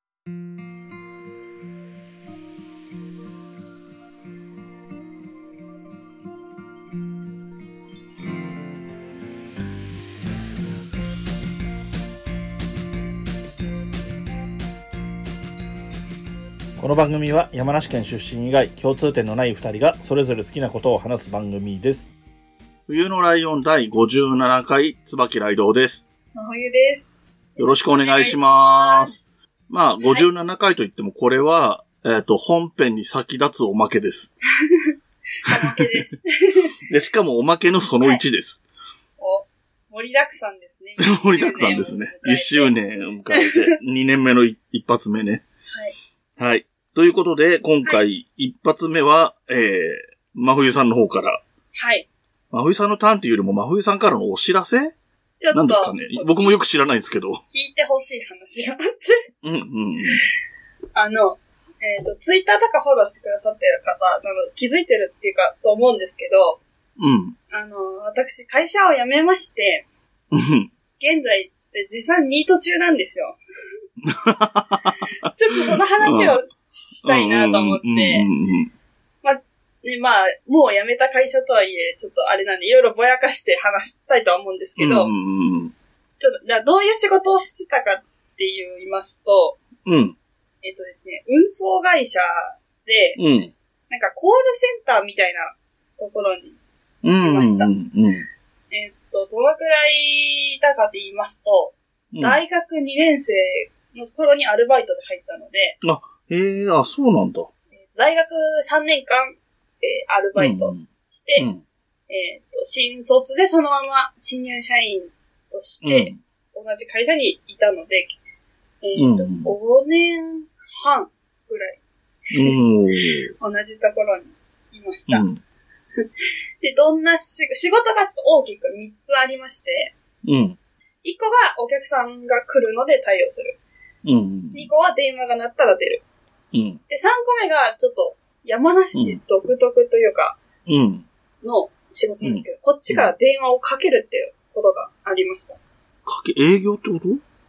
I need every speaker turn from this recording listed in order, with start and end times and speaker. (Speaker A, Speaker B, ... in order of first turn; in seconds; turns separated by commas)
Speaker A: 16.8-22.1, Speaker A: 22.9-26.0, Speaker B: 26.3-29.2, Speaker A: 27.6-34.3, Speaker B: 30.0-30.3, Speaker B: 35.4-36.7, Speaker A: 36.9-38.6, Speaker B: 39.2-42.8, Speaker A: 41.1-45.4, Speaker B: 43.3-43.6, Speaker A: 46.4-51.4, Speaker B: 51.7-52.1, Speaker A: 52.5-55.0, Speaker B: 55.4-56.6, Speaker A: 55.5-57.4, Speaker B: 57.5-59.2, Speaker A: 59.4-60.2, Speaker B: 60.9-66.6, Speaker A: 67.0-67.4, Speaker B: 67.5-69.9, Speaker A: 70.3-70.7, Speaker B: 71.0-73.4, Speaker A: 74.1-75.0, Speaker B: 75.3-78.3, Speaker A: 76.0-76.4, Speaker A: 77.0-78.7, Speaker B: 79.2-85.1, Speaker A: 84.8-85.7, Speaker B: 86.2-89.6, Speaker A: 89.8-90.2, Speaker B: 90.6-93.2, Speaker A: 93.2-93.5, Speaker B: 93.9-96.6, Speaker A: 97.0-98.3, Speaker B: 97.2-97.8, Speaker B: 98.7-105.8, Speaker A: 102.1-102.4, Speaker A: 105.8-107.5, Speaker B: 107.9-111.5, Speaker A: 110.4-111.6, Speaker B: 112.1-118.2, Speaker A: 115.8-116.2, Speaker B: 118.8-121.8, Speaker A: 119.0-119.5, Speaker A: 122.3-123.3, Speaker B: 123.4-125.3, Speaker A: 125.1-125.4, Speaker B: 126.6-129.9, Speaker A: 130.2-130.6, Speaker B: 131.0-133.6, Speaker A: 134.1-134.7, Speaker B: 134.5-136.0, Speaker A: 136.5-136.8, Speaker B: 136.9-140.4, Speaker A: 138.9-139.2, Speaker A: 140.7-141.1, Speaker B: 141.4-145.6, Speaker A: 142.2-143.1, Speaker A: 146.1-147.2